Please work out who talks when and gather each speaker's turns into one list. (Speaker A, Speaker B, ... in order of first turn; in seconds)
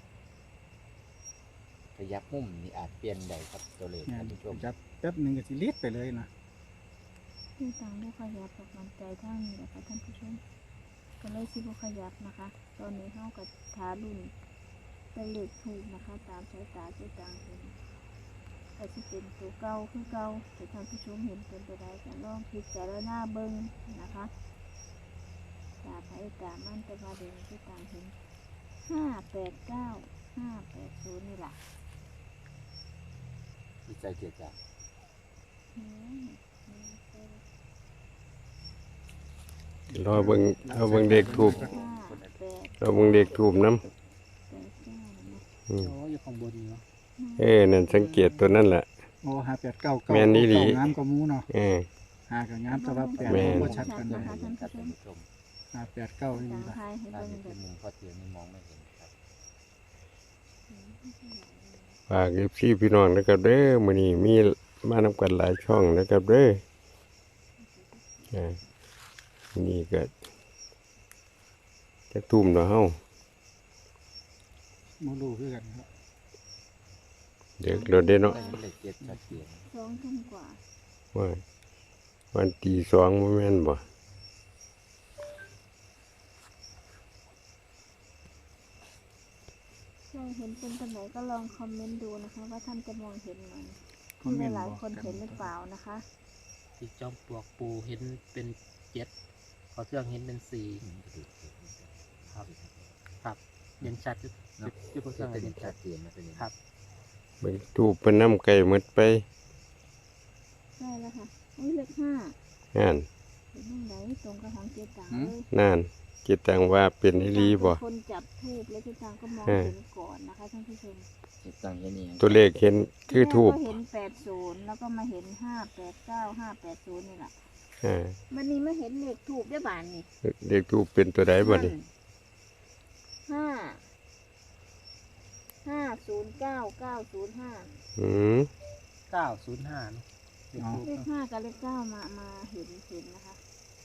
Speaker A: 1.9-4.7, 33.9-34.6, 41.4-41.9, 53.3-55.3, 57.1-59.1, 78.2-79.7, 100.8-103.0, 104.6-106.5, 121.4-122.4
Speaker B: 4.1-6.3, 39.9-41.8, 49.2-51.5, 52.3-54.4, 55.7-56.8, 75.0-75.9, 94.2-95.5, 140.6-140.8
Speaker C: 7.6-10.4, 11.2-14.3, 15.1-17.8, 18.8-24.3, 25.8-28.2, 28.8-31.6, 35.7-37.4, 41.3-43.5, 44.5-45.4, 47.2-47.9, 52.7-55.0, 56.3-57.6, 60.7-62.0, 67.6-68.6, 77.7-78.6, 79.7-80.6, 90.1-96.1, 110.8-112.4, 113.5-115.5, 117.1-121.1, 123.1-127.4, 128.3-130.1, 131.3-131.9, 133.3-133.9, 135.6-137.7, 140.8-143.4
Speaker D: 40.0-41.7, 42.8-43.9, 47.4-48.9, 50.1-50.9, 51.5-51.9, 53.2-53.8, 62.1-66.6, 68.3-68.6, 69.5-70.1, 72.1-73.0, 77.6-78.5, 81.1-81.4, 82.3-83.8, 107.4-109.2, 112.7-113.1, 115.5-117.8, 119.5-119.8, 122.2-123.7, 127.8-128.2, 130.2-131.8, 138.0-138.5
Speaker E: 45.8-46.9, 47.9-48.6, 96.8-99.1, 99.7-100.8, 103.2-105.8, 139.1-141.1